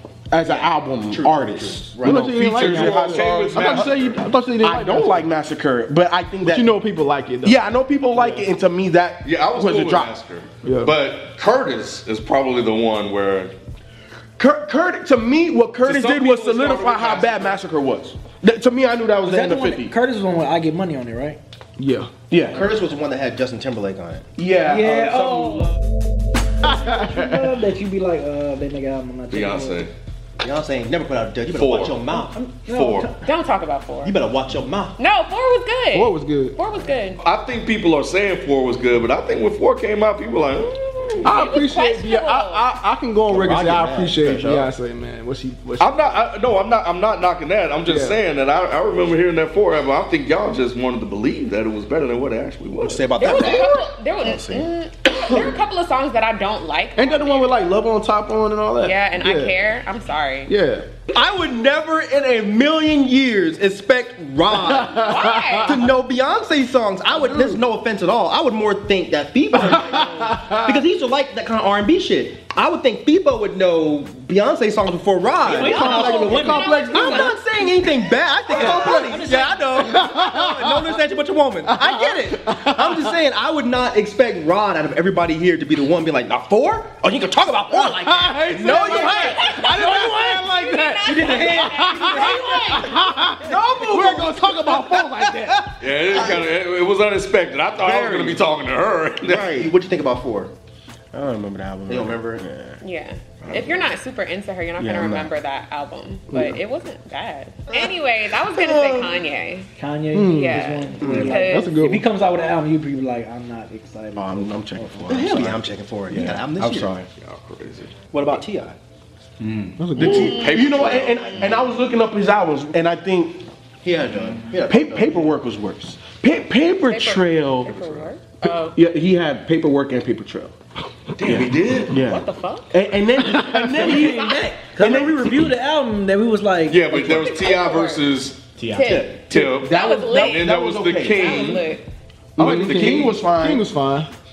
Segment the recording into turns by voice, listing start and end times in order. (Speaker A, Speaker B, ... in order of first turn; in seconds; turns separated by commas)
Speaker A: 0.3-6.7, Speaker B: 0.4-2.3, Speaker C: 2.0-5.3, Speaker D: 2.5-4.2, Speaker C: 6.4-7.6, Speaker A: 7.4-10.1, Speaker C: 8.1-8.4, Speaker D: 9.2-13.5, Speaker C: 10.6-10.9, Speaker A: 14.4-19.9, Speaker D: 15.8-17.6, Speaker E: 19.2-21.4, Speaker C: 21.8-22.1, Speaker A: 22.3-22.6, Speaker B: 22.5-24.2, Speaker A: 24.4-25.7, Speaker E: 24.6-25.8, Speaker C: 26.6-27.4, Speaker E: 26.6-29.9, Speaker D: 29.3-29.9, Speaker B: 30.4-32.3, Speaker D: 31.5-32.0, Speaker E: 32.1-33.2, Speaker D: 32.6-33.2, Speaker F: 33.2-34.1, Speaker B: 34.0-35.0, Speaker F: 35.0-37.2, Speaker C: 35.9-36.6, Speaker D: 37.2-40.7, Speaker F: 40.6-42.7, Speaker C: 41.2-46.1, Speaker B: 43.3-44.7, Speaker D: 45.8-53.1, Speaker C: 47.9-48.2, Speaker B: 52.8-54.7, Speaker F: 53.1-57.6, Speaker C: 57.0-59.5, Speaker F: 58.8-60.5, Speaker C: 60.5-60.9, Speaker B: 61.1-65.1, Speaker C: 64.7-65.8, Speaker F: 65.0-65.7, Speaker B: 65.7-76.3, Speaker C: 67.1-67.6, Speaker C: 69.8-70.6, Speaker F: 69.9-70.4, Speaker E: 75.4-77.8, Speaker C: 75.6-77.3, Speaker F: 75.6-77.3, Speaker B: 76.9-89.9, Speaker F: 77.8-78.2, Speaker E: 78.5-79.9, Speaker C: 78.6-79.1, Speaker C: 79.8-80.8, Speaker C: 81.7-83.1, Speaker C: 87.7-95.7, Speaker F: 88.9-89.6, Speaker F: 90.2-92.9, Speaker E: 91.0-94.1, Speaker B: 93.4-95.3, Speaker D: 95.8-99.7, Speaker B: 96.0-96.4, Speaker A: 97.8-98.4, Speaker B: 99.2-100.5, Speaker A: 101.1-102.8, Speaker B: 101.9-102.4, Speaker F: 102.8-109.7, Speaker D: 103.4-104.0, Speaker A: 104.8-105.3, Speaker C: 106.3-106.6, Speaker B: 108.5-109.1, Speaker E: 109.8-115.2, Speaker C: 110.1-110.6, Speaker F: 110.3-111.8, Speaker C: 111.4-112.1, Speaker A: 114.2-117.1, Speaker B: 115.1-117.0, Speaker D: 117.2-117.9, Speaker B: 118.1-118.8, Speaker D: 119.5-121.5, Speaker C: 119.8-120.6, Speaker A: 119.9-123.4, Speaker F: 120.3-120.8, Speaker B: 123.8-125.3, Speaker A: 124.7-127.7, Speaker F: 126.9-128.8, Speaker D: 127.7-128.1, Speaker A: 128.7-130.5, Speaker D: 131.2-132.0, Speaker A: 131.2-135.5, Speaker F: 132.0-132.7, Speaker C: 133.3-134.2, Speaker E: 133.7-137.2, Speaker F: 134.1-134.4, Speaker D: 136.7-138.6, Speaker F: 136.9-138.1, Speaker A: 138.6-141.6, Speaker F: 138.7-140.4, Speaker D: 139.2-141.5, Speaker F: 141.1-141.8, Speaker A: 142.4-143.7, Speaker C: 142.4-144.1, Speaker D: 142.6-143.2